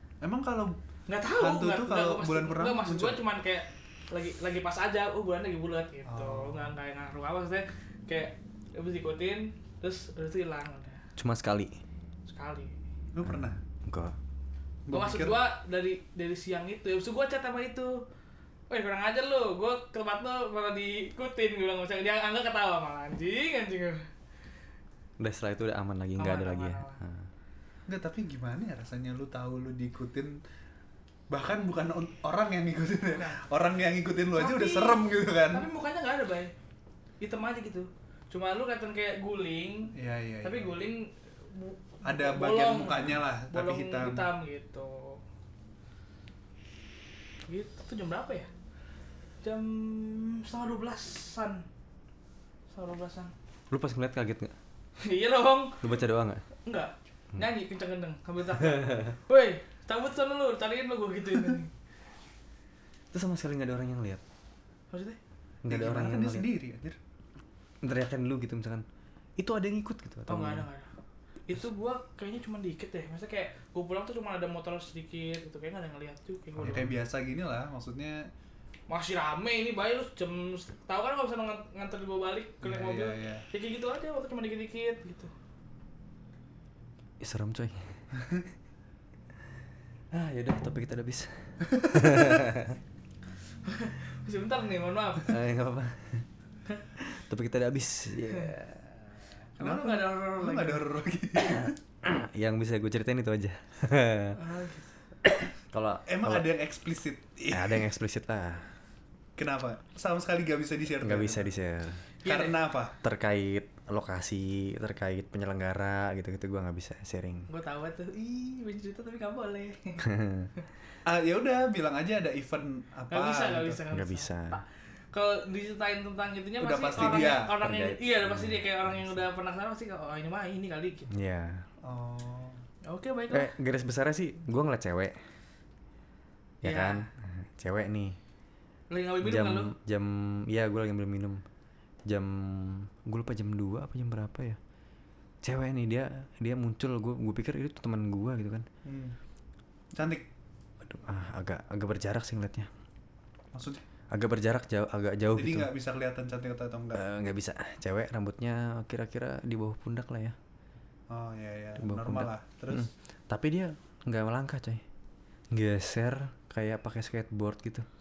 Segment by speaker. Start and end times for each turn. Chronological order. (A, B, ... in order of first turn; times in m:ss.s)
0:00.2-0:00.8 A
0:01.1-0:11.0 B
0:01.3-0:03.2 A
0:06.0-0:06.7 A
0:11.2-0:11.8 C
0:12.3-0:12.7 B
0:13.1-0:13.6 A
0:13.2-0:14.2 C
0:14.9-0:15.4 A
0:14.9-0:18.0 B
0:18.7-0:24.0 B
0:25.2-0:27.3 C
0:26.2-0:27.0 B
0:27.9-0:30.4 A
0:31.3-0:35.7 A
0:33.1-0:33.4 B
0:34.3-0:36.5 B
0:37.2-0:45.2 B
0:39.9-0:40.8 A
0:42.0-0:44.3 A
0:47.5-0:48.5 B
0:49.4-0:51.6 B
0:52.7-0:53.3 B
0:53.7-0:54.5 C
0:55.0-0:55.8 B
0:55.8-0:56.4 C
0:56.6-1:01.7 B
0:58.6-0:59.1 C
1:03.1-1:04.2 C
1:04.9-1:05.2 B
1:05.6-1:06.5 C
1:05.7-1:07.0 A
1:07.8-1:08.8 C
1:09.4-1:10.7 C
1:10.3-1:10.9 B
1:11.5-1:16.9 B
1:16.6-1:16.9 C
1:16.6-1:18.3 A
1:18.9-1:25.3 B
1:22.6-1:23.4 A
1:27.2-1:28.1 C
1:28.2-1:28.4 A
1:30.1-1:32.8 C
1:33.6-1:35.4 B
1:35.3-1:36.3 C
1:36.9-1:38.9 C
1:39.6-1:40.8 B
1:39.6-1:41.7 A
1:41.5-1:44.4 C
1:44.3-1:45.0 B
1:45.7-1:46.4 C
1:46.1-1:47.8 A
1:47.5-1:48.7 C
1:49.4-1:51.5 A
1:51.0-1:52.0 C
1:52.2-1:52.6 B
1:52.2-1:52.9 A
1:53.0-1:57.5 C
1:57.5-2:00.1 B
2:00.0-2:00.5 C
2:01.0-2:03.8 A
2:03.1-2:11.1 B
2:03.9-2:04.6 C
2:06.6-2:07.5 A
2:07.0-2:09.2 C
2:11.1-2:11.6 C
2:11.8-2:12.6 A
2:12.9-2:13.5 B
2:13.3-2:15.2 C
2:16.6-2:18.2 C
2:16.6-2:17.0 B
2:18.9-2:19.7 B
2:19.2-2:21.4 C
2:22.1-2:24.6 C
2:25.4-2:28.6 C
2:28.8-2:29.2 A
2:29.9-2:30.2 A
2:30.8-2:32.7 C
2:33.5-2:33.8 A
2:34.1-2:35.7 C
2:35.3-2:37.0 A
2:36.9-2:40.4 C
2:41.1-2:42.9 A
2:41.8-2:44.8 C
2:45.5-2:47.8 C